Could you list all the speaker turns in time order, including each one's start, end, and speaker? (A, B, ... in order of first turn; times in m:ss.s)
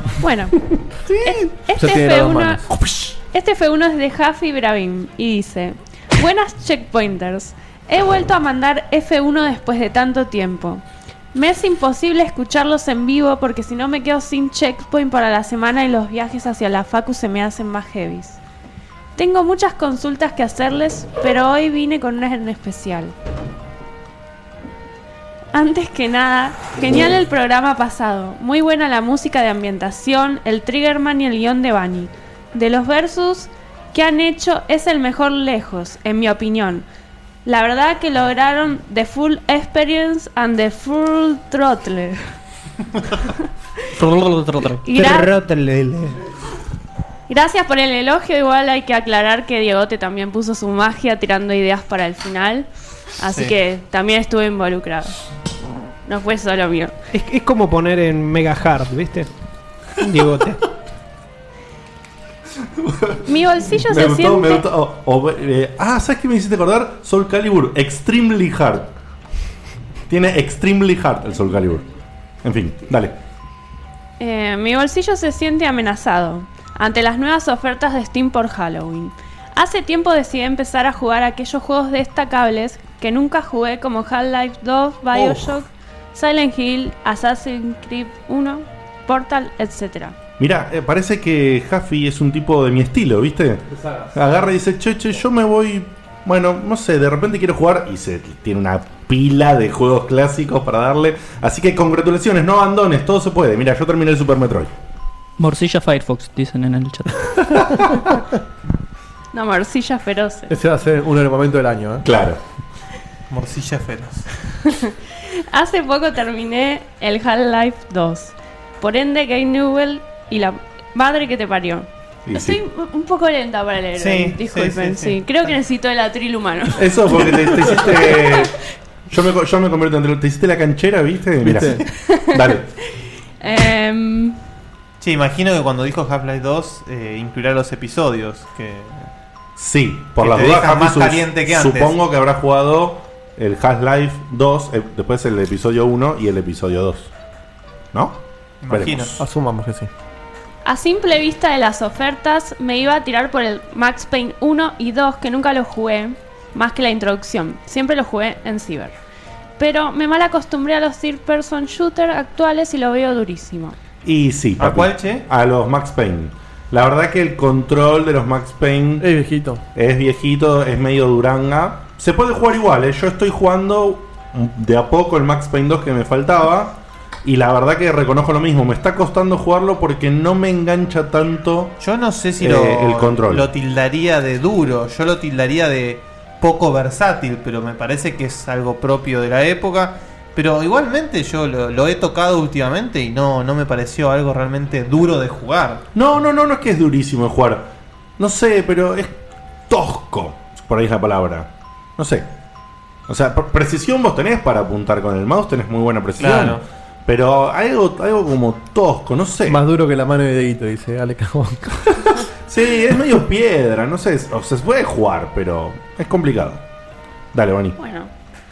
0:00.2-0:02.6 A
0:01.6-0:02.7 B
0:02.7-0:03.2 C
0:03.3-0:10.8 A
0:11.3-0:18.4 A
0:19.2-0:23.1 A
0:25.5-0:36.8 A
0:37.4-0:42.3 A
0:44.0-0:44.8 D
0:44.8-0:45.3 A
0:45.0-0:46.2 E
0:47.3-0:55.2 A
0:53.2-0:53.5 D
0:56.0-0:57.0 A
0:57.1-0:59.3 E
1:00.0-1:00.6 E
1:02.8-1:03.2 C
1:03.2-1:04.6 A
1:03.8-1:08.9 C
1:10.1-1:11.8 C
1:12.4-1:13.2 C
1:14.2-1:30.2 A
1:25.2-1:25.5 C
1:30.4-1:44.7 C
1:45.4-1:47.4 F
1:49.3-1:50.5 A
1:50.5-1:52.0 B
1:52.0-1:52.4 C
1:53.3-1:54.3 D
1:54.7-2:08.5 A
2:02.3-2:02.6 C
2:04.0-2:05.5 D
2:06.8-2:08.5 C
2:09.1-2:12.7 C
2:11.4-2:11.8 B
2:12.0-2:12.4 A
2:13.4-2:14.4 A
2:15.0-2:19.1 D
2:19.6-2:27.1 C
2:20.2-2:22.0 D
2:27.9-2:29.2 C
2:28.6-2:29.1 D
2:29.2-2:29.9 B
2:30.6-2:39.0 A
2:39.6-2:43.8 A
2:44.0-2:49.0 C
2:44.6-2:45.2 D
2:49.0-2:49.6 B
2:49.7-3:01.8 C
3:01.8-3:15.8 D
3:02.4-3:03.5 C
3:15.9-3:19.1 C
3:19.7-3:22.3 C
3:23.1-3:29.6 C
3:26.2-3:26.6 D
3:29.4-3:32.2 B
3:32.5-3:36.6 C
3:37.3-3:37.8 C
3:37.8-3:38.1 A